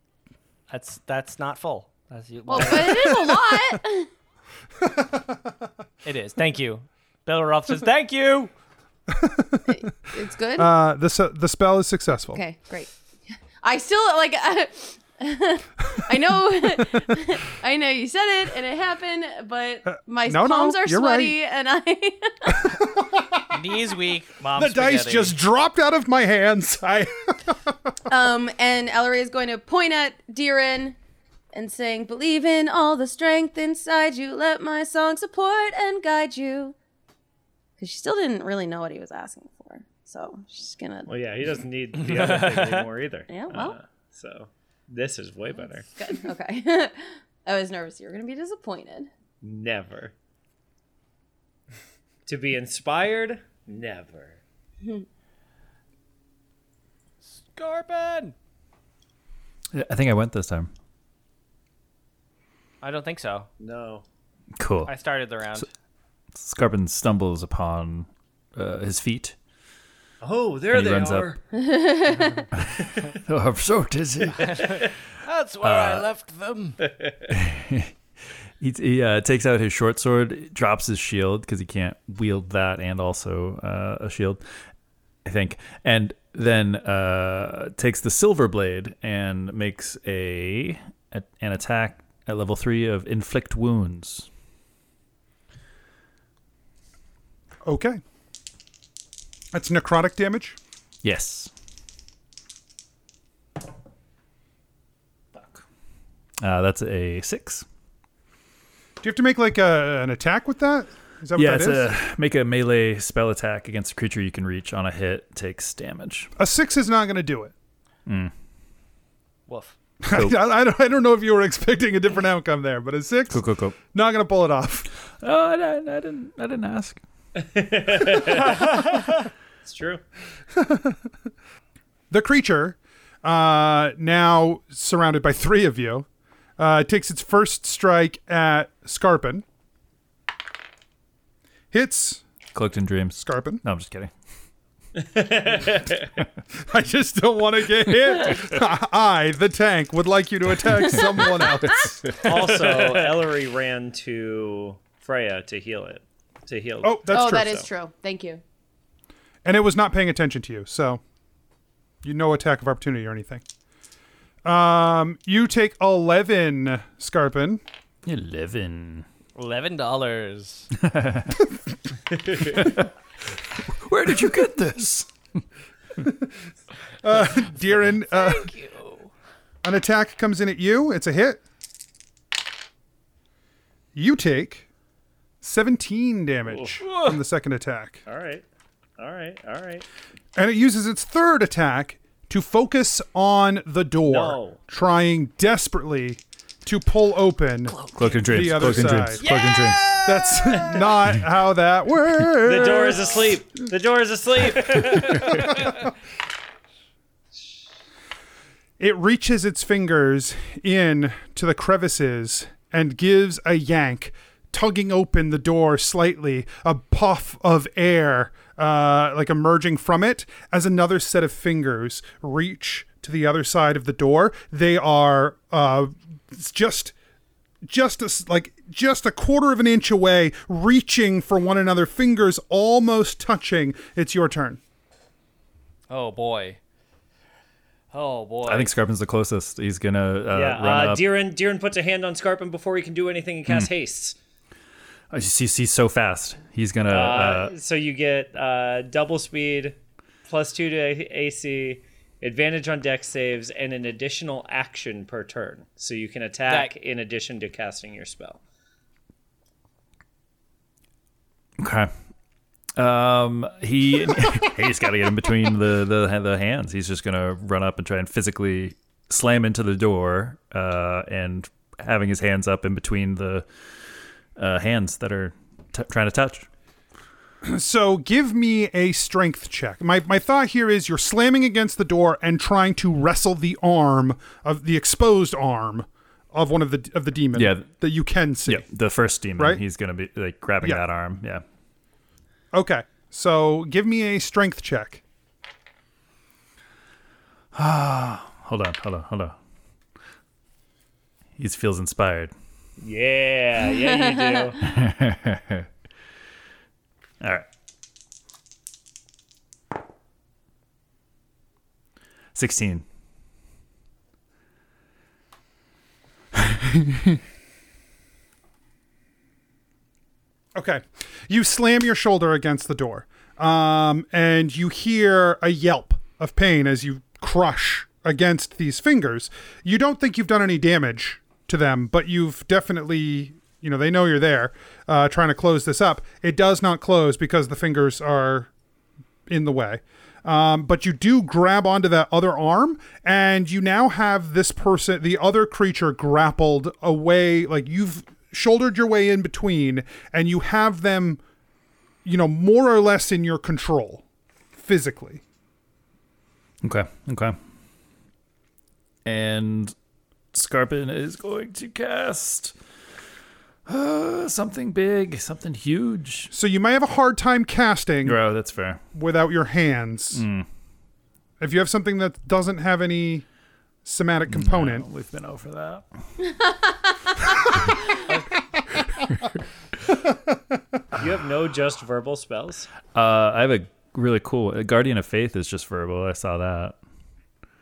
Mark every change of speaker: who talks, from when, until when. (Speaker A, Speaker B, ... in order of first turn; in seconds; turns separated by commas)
Speaker A: 0.7-3.3, Speaker B: 2.5-4.1, Speaker C: 4.8-5.4, Speaker A: 6.0-8.5, Speaker C: 9.1-9.8, Speaker B: 9.7-10.7, Speaker C: 10.6-12.4, Speaker B: 12.3-22.7, Speaker C: 19.9-21.4, Speaker C: 22.5-23.5, Speaker A: 23.5-25.4, Speaker C: 24.6-27.8, Speaker B: 28.1-31.0, Speaker B: 31.5-36.8, Speaker B: 37.8-41.1, Speaker D: 41.1-45.9, Speaker A: 42.0-42.9, Speaker B: 43.3-43.8, Speaker B: 46.0-49.1, Speaker D: 49.4-50.1, Speaker D: 52.3-54.4, Speaker A: 57.2-58.4, Speaker E: 59.7-60.7, Speaker A: 62.8-63.5, Speaker D: 63.6-64.0, Speaker E: 64.6-64.9, Speaker A: 64.9-65.7, Speaker E: 66.3-69.4, Speaker D: 70.2-71.4, Speaker E: 70.7-71.3, Speaker B: 71.5-72.5, Speaker E: 72.6-74.6, Speaker A: 74.3-76.8, Speaker E: 75.6-76.1, Speaker D: 76.8-77.2, Speaker E: 77.3-77.9, Speaker E: 78.6-84.4, Speaker E: 85.2-94.3, Speaker C: 97.7-98.0, Speaker C: 99.5-100.6, Speaker E: 101.0-101.5, Speaker E: 106.4-107.7, Speaker C: 109.0-111.9, Speaker E: 111.4-116.3, Speaker C: 116.4-117.5, Speaker E: 118.1-118.3, Speaker A: 119.5-119.8, Speaker C: 120.0-124.9, Speaker E: 120.1-120.4, Speaker E: 123.3-123.8, Speaker E: 125.2-127.0, Speaker D: 127.3-129.1, Speaker D: 129.6-130.0, Speaker C: 130.6-131.0, Speaker C: 132.1-136.1, Speaker C: 136.6-139.4, Speaker C: 141.7-142.2, Speaker E: 142.5-144.1, Speaker C: 143.2-143.6, Speaker D: 144.9-146.2, Speaker C: 146.6-152.0, Speaker D: 152.2-157.7, Speaker C: 156.8-157.6, Speaker B: 157.1-158.4, Speaker C: 159.4-161.0, Speaker C: 162.0-163.4, Speaker C: 164.4-167.6, Speaker E: 168.1-169.1, Speaker A: 169.4-170.7, Speaker E: 170.7-171.5, Speaker D: 172.3-172.5, Speaker E: 172.4-172.9, Speaker E: 173.6-175.1, Speaker C: 176.0-176.3, Speaker C: 177.0-178.5, Speaker A: 177.8-179.1, Speaker C: 179.6-181.4, Speaker C: 183.9-184.7, Speaker C: 185.4-188.0, Speaker D: 186.5-186.8, Speaker A: 186.8-187.2, Speaker D: 188.1-188.4, Speaker D: 189.0-189.8, Speaker C: 190.4-199.2, Speaker D: 194.1-194.6, Speaker A: 197.7-201.0, Speaker E: 197.9-199.8, Speaker C: 200.0-203.1, Speaker D: 202.4-205.6, Speaker C: 208.8-226.9, Speaker C: 227.7-234.6, Speaker A: 235.9-236.6, Speaker A: 237.9-238.7, Speaker E: 238.5-241.0, Speaker D: 240.3-244.2, Speaker E: 245.1-247.5, Speaker D: 246.9-258.4, Speaker A: 256.5-256.7, Speaker E: 261.6-261.9, Speaker E: 262.8-273.5, Speaker E: 274.4-276.5, Speaker C: 277.4-288.7, Speaker E: 287.3-287.7, Speaker E: 288.5-291.4, Speaker C: 292.5-295.0, Speaker E: 297.5-299.4, Speaker E: 301.4-302.3, Speaker D: 302.8-304.6, Speaker B: 304.1-304.4, Speaker E: 304.6-305.7, Speaker E: 307.2-307.5, Speaker E: 312.4-312.8, Speaker C: 320.6-338.5, Speaker C: 339.3-351.2, Speaker C: 352.0-354.0, Speaker C: 354.6-355.2, Speaker E: 356.6-357.4, Speaker E: 359.1-359.7, Speaker E: 360.3-362.6, Speaker E: 363.7-366.3, Speaker C: 366.3-368.2, Speaker E: 368.1-368.8, Speaker C: 368.9-370.2, Speaker E: 370.1-370.5, Speaker C: 371.4-373.2, Speaker C: 373.9-374.9, Speaker E: 374.3-375.9, Speaker B: 376.3-377.7, Speaker D: 380.9-382.7, Speaker E: 382.9-386.8